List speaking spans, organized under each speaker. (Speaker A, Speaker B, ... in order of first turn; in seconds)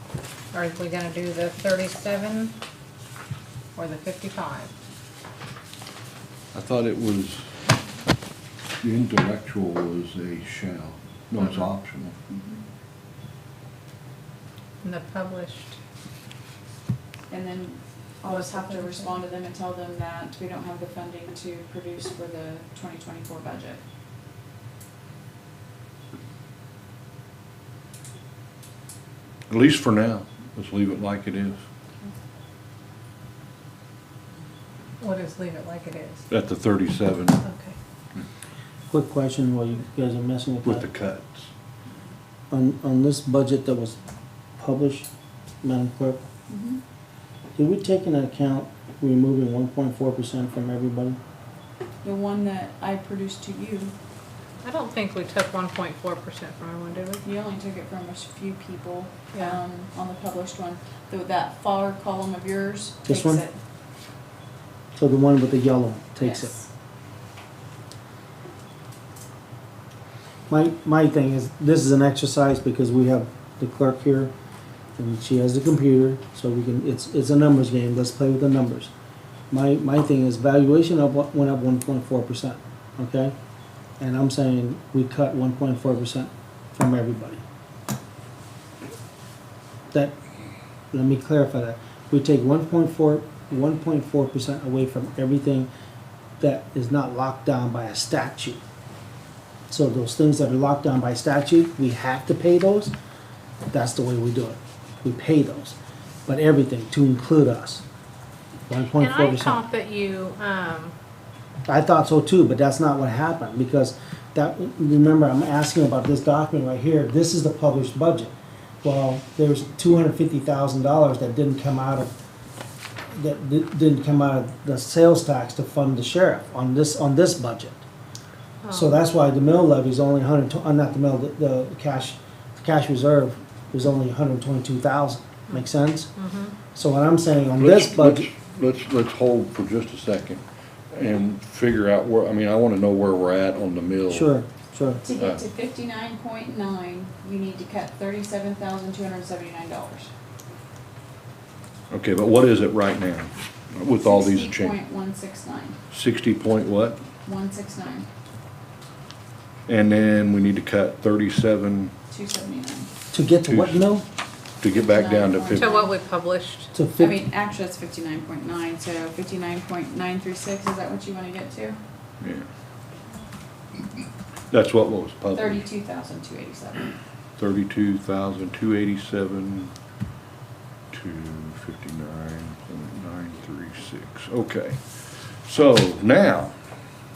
Speaker A: 0.5-2.5, 3.8-4.7, 11.4-11.7, 14.8-15.8, 18.2-19.2, 35.0-36.2, 37.4-37.8, 54.6-57.2, 109.0-110.9, 128.6-129.0, 135.5-136.5, 165.5-166.7
Speaker B: 6.5-7.5, 8.8-12.1, 29.5-31.6, 36.3-37.4, 40.6-41.5, 137.6-144.3, 145.2-145.4, 151.9-154.7, 155.9-157.0, 159.7-161.9, 163.5-163.9, 164.6-165.7, 172.2-172.5, 174.5-175.6, 177.4-179.7, 180.9-184.8, 185.5-186.5
Speaker C: 12.3-12.6, 17.3-23.8, 46.5-46.8, 52.0-53.9, 57.2-63.6, 66.2-66.7, 145.0-150.1, 154.0-155.8, 157.2-158.1, 162.1-162.9, 164.7-165.9, 167.0-171.8, 175.3-177.0
Speaker D: 38.9-40.8, 42.5-44.0, 44.6-45.1, 45.6-46.2, 47.5-51.2, 63.0-63.4, 65.0-66.5, 70.5-74.3, 75.0-78.9, 79.5-83.3, 84.0-87.4, 89.9-90.2, 90.9-95.7, 96.4-98.6, 99.7-102.9, 103.7-107.8, 108.7-109.6, 111.7-122.1, 123.1-127.8, 128.7-136.1, 136.7-138.3, 144.1-145.0, 163.1-164.0, 166.7-167.2